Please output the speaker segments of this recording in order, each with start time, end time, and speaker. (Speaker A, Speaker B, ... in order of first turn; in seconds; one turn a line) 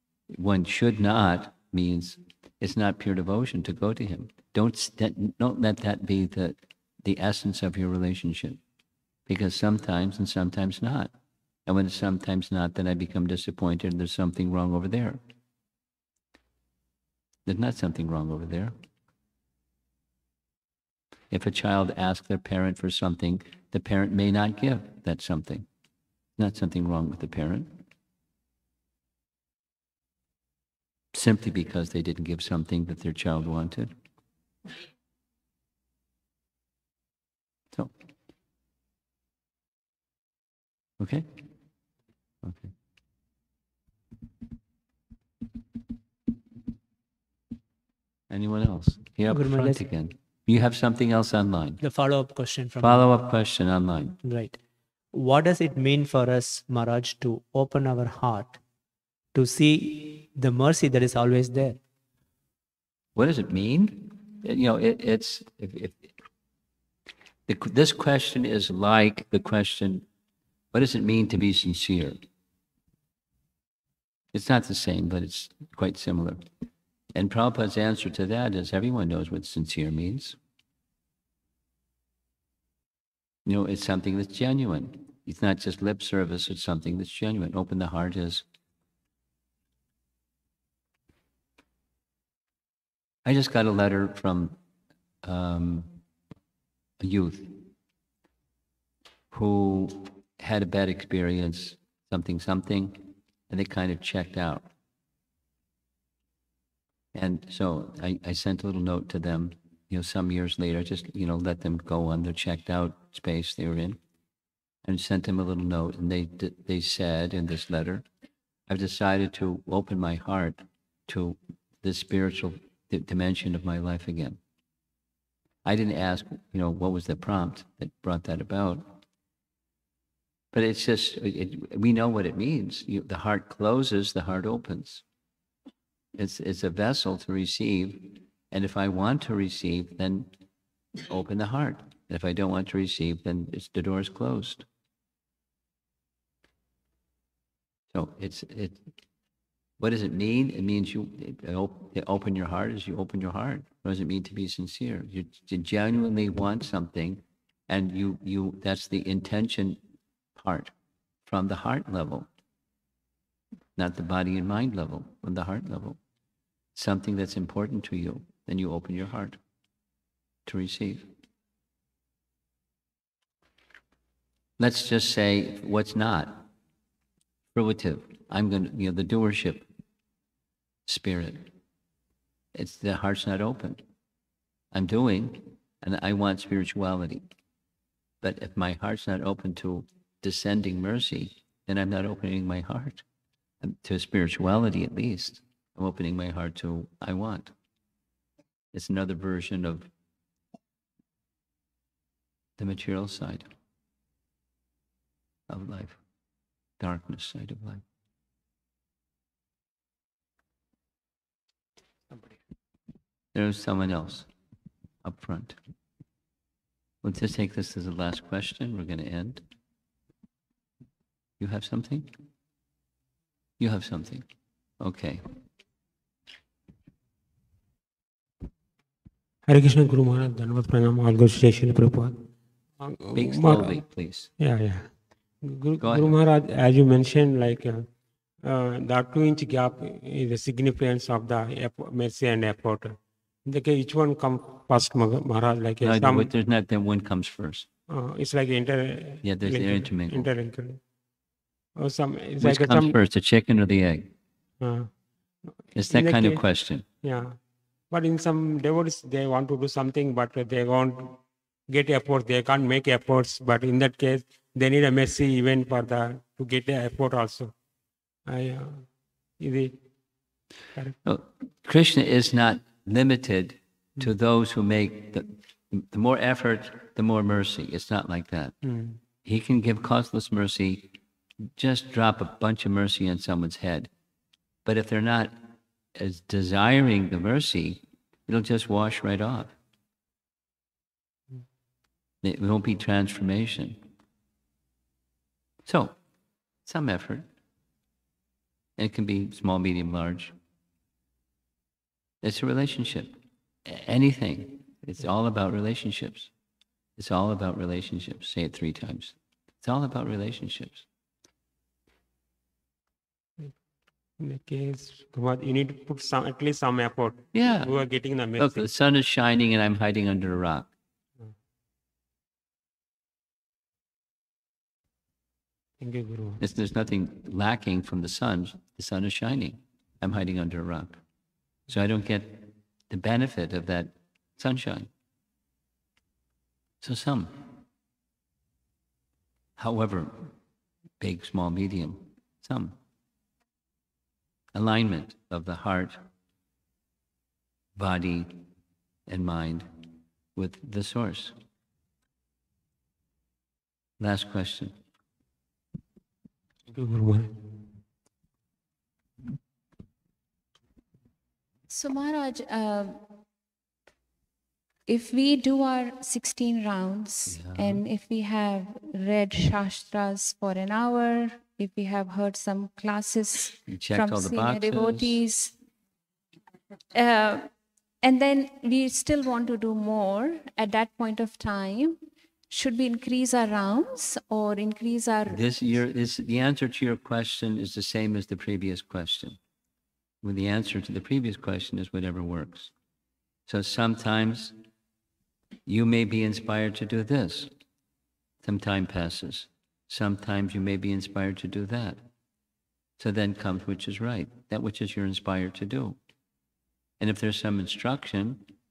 Speaker A: 0.3-8.6
Speaker A: 9.3-11.1
Speaker A: 11.7-15.2
Speaker A: 17.4-18.7
Speaker A: 21.3-25.7
Speaker A: 26.4-27.8
Speaker A: 31.1-33.9
Speaker A: 41.0-41.4
Speaker A: 42.4-42.7
Speaker A: 48.3-51.8
Speaker B: 49.3-49.8
Speaker B: 51.8-53.1
Speaker A: 52.8-54.2
Speaker B: 54.2-54.6
Speaker B: 55.1-58.6
Speaker B: 59.3-61.8
Speaker A: 63.1-66.1
Speaker A: 67.5-70.1
Speaker A: 70.7-72.2
Speaker A: 74.3-76.4
Speaker A: 77.1-80.4
Speaker A: 83.4-88.4
Speaker A: 93.2-94.6
Speaker A: 95.2-96.0
Speaker A: 97.0-97.7
Speaker A: 99.3-104.7
Speaker A: 107.1-114.0
Speaker A: 114.8-118.0
Speaker A: 118.7-124.4
Speaker A: 125.6-129.0
Speaker A: 130.5-135.0
Speaker A: 136.2-140.3
Speaker A: 141.1-144.7
Speaker A: 147.9-148.8
Speaker A: 149.8-159.8
Speaker A: 160.3-160.7
Speaker A: 161.3-162.3
Speaker A: 163.8-166.0
Speaker A: 166.7-169.4
Speaker A: 170.4-171.1
Speaker A: 174.6-176.5
Speaker A: 177.5-179.7
Speaker A: 180.8-181.5
Speaker A: 182.5-183.8
Speaker A: 184.7-187.3
Speaker A: 188.2-193.0
Speaker A: 193.6-197.5
Speaker A: 198.7-199.9
Speaker A: 202.6-203.5
Speaker A: 205.5-206.0
Speaker A: 206.8-207.8
Speaker C: 212.1-212.4
Speaker A: 213.3-214.3
Speaker A: 215.0-215.6
Speaker A: 217.0-219.4
Speaker A: 221.4-222.1
Speaker A: 223.6-224.3
Speaker A: 224.8-225.2
Speaker C: 229.4-232.2
Speaker C: 232.8-233.8
Speaker A: 233.1-234.3
Speaker C: 234.4-237.9
Speaker A: 235.8-236.2
Speaker C: 238.4-246.3
Speaker A: 245.8-247.7
Speaker C: 247.9-250.8
Speaker A: 249.2-250.3
Speaker C: 251.8-252.9
Speaker A: 252.4-254.1
Speaker C: 254.6-255.0
Speaker A: 255.7-256.8
Speaker C: 255.8-256.4
Speaker C: 257.0-257.4
Speaker C: 257.9-267.5
Speaker C: 268.2-269.8
Speaker A: 271.0-278.6
Speaker C: 278.6-279.0
Speaker A: 279.2-280.9
Speaker A: 281.6-283.9
Speaker A: 284.6-285.4
Speaker A: 285.9-289.5
Speaker A: 292.2-293.8
Speaker A: 295.6-296.0
Speaker A: 296.6-297.3
Speaker A: 298.8-300.3
Speaker A: 302.2-306.3
Speaker A: 307.0-310.9
Speaker C: 314.2-318.7
Speaker A: 317.3-317.7
Speaker A: 318.4-320.7
Speaker C: 325.8-326.4
Speaker A: 326.4-331.0
Speaker A: 331.7-334.9
Speaker A: 336.8-337.6
Speaker A: 339.6-340.3
Speaker A: 341.0-342.8
Speaker A: 344.5-346.0
Speaker A: 347.8-348.4
Speaker A: 349.1-349.7
Speaker A: 350.3-351.3
Speaker A: 354.0-354.8
Speaker C: 356.7-357.4
Speaker D: 361.7-363.1
Speaker D: 364.9-375.6
Speaker A: 367.3-367.8
Speaker A: 373.7-375.2
Speaker D: 376.9-382.0
Speaker D: 382.5-385.4
Speaker A: 385.3-389.4
Speaker A: 390.2-392.7
Speaker A: 393.5-394.5
Speaker A: 395.6-397.5
Speaker A: 398.4-402.0
Speaker A: 403.0-406.0
Speaker A: 407.0-408.4